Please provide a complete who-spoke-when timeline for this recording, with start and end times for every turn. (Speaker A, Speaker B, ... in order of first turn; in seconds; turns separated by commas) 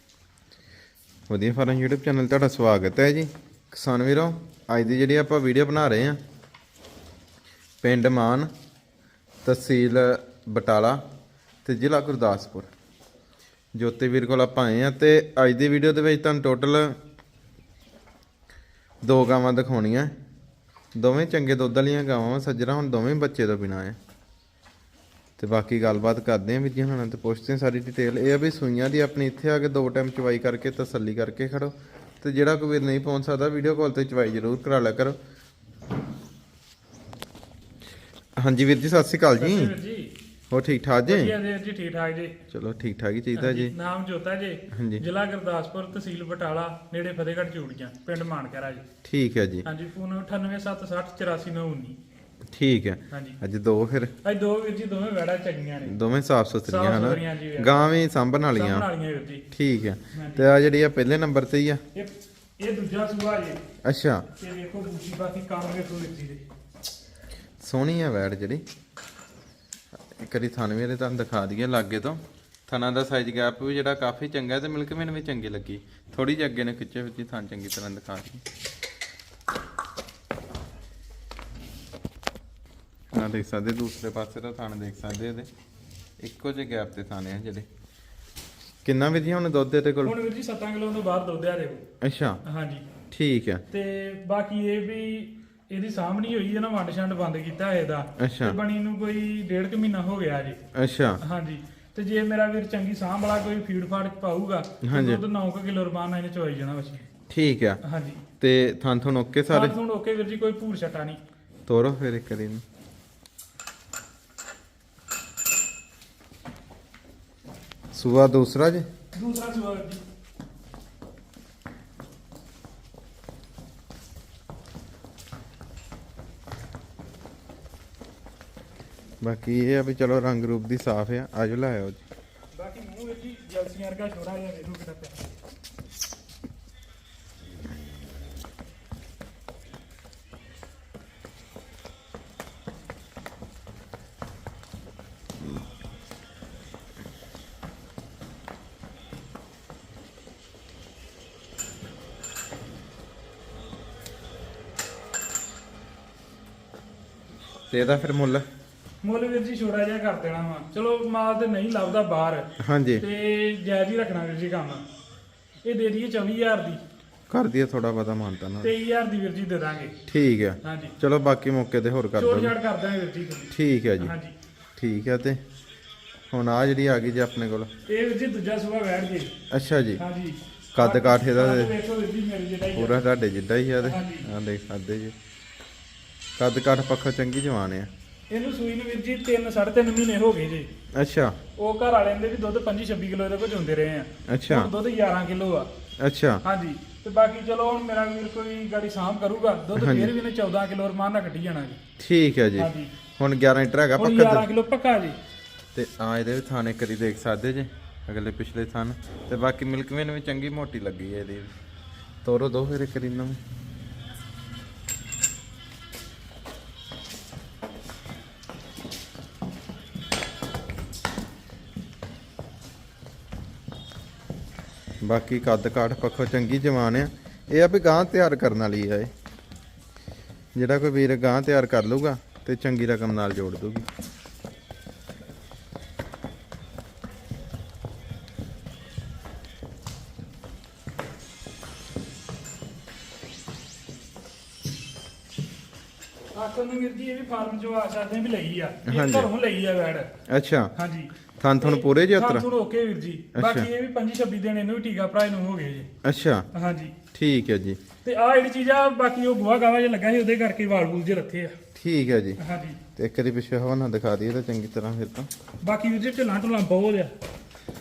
Speaker A: 1.3-6.2, Speaker A: 7.8-8.5, Speaker A: 9.4-11.0, Speaker A: 11.6-12.7, Speaker A: 13.7-17.0, Speaker A: 19.0-20.1, Speaker A: 20.9-24.0, Speaker A: 25.4-35.2, Speaker A: 38.4-39.7, Speaker B: 39.4-40.1, Speaker A: 40.5-41.3, Speaker B: 41.1-42.4, Speaker A: 42.5-43.7, Speaker B: 43.3-48.8, Speaker A: 44.7-45.0, Speaker A: 49.0-49.6, Speaker B: 49.6-52.0, Speaker A: 52.5-54.1, Speaker B: 53.1-53.4, Speaker B: 54.2-56.0, Speaker A: 55.8-58.9, Speaker B: 56.6-57.8, Speaker B: 58.5-59.4, Speaker A: 59.5-61.8, Speaker B: 60.1-60.5, Speaker B: 61.9-63.6, Speaker A: 63.8-64.3, Speaker B: 64.4-66.4, Speaker A: 67.6-68.6, Speaker A: 70.2-78.4, Speaker A: 83.1-85.5, Speaker A: 86.2-87.7, Speaker A: 88.8-90.1, Speaker B: 90.0-91.8, Speaker A: 92.0-92.4, Speaker B: 92.4-92.8, Speaker A: 93.1-93.6, Speaker B: 93.7-100.6, Speaker A: 98.2-98.6, Speaker A: 100.7-101.2, Speaker B: 101.2-107.1, Speaker A: 104.8-105.2, Speaker A: 107.3-107.8, Speaker B: 107.8-108.2, Speaker A: 108.4-109.7, Speaker B: 109.5-111.2, Speaker A: 111.7-112.6, Speaker A: 117.9-118.8, Speaker B: 119.1-120.0, Speaker A: 129.2-132.0, Speaker B: 132.5-135.3, Speaker A: 157.7-158.4, Speaker B: 159.0-162.5, Speaker A: 162.6-163.0, Speaker B: 163.0-164.8, Speaker B: 165.6-166.8, Speaker A: 167.3-168.7, Speaker B: 168.6-169.9, Speaker A: 170.1-172.5, Speaker B: 170.6-170.9, Speaker B: 172.2-174.3, Speaker A: 173.5-174.1, Speaker A: 174.8-175.4, Speaker A: 176.3-177.7, Speaker B: 177.9-179.3, Speaker A: 179.5-180.0, Speaker B: 180.0-183.0, Speaker A: 180.7-181.7, Speaker A: 182.7-185.1, Speaker B: 183.8-184.3, Speaker A: 186.4-187.9, Speaker B: 188.3-190.7, Speaker A: 190.9-191.4, Speaker B: 191.6-195.7, Speaker A: 194.3-194.7, Speaker A: 196.0-196.4, Speaker B: 196.4-201.8, Speaker A: 199.8-200.1, Speaker A: 202.0-204.4, Speaker B: 202.6-202.9, Speaker B: 204.0-205.2, Speaker A: 205.7-211.5, Speaker A: 212.2-213.4, Speaker A: 225.0-229.1, Speaker A: 230.5-233.9, Speaker B: 246.3-250.1, Speaker A: 248.8-249.3, Speaker A: 250.3-250.7, Speaker B: 250.8-255.9, Speaker A: 251.4-252.5, Speaker A: 253.3-253.7, Speaker A: 256.0-256.5, Speaker B: 256.5-256.9, Speaker A: 257.1-257.8, Speaker B: 258.0-261.5, Speaker A: 261.7-262.4, Speaker B: 262.4-262.8, Speaker A: 262.9-265.3, Speaker B: 265.6-267.1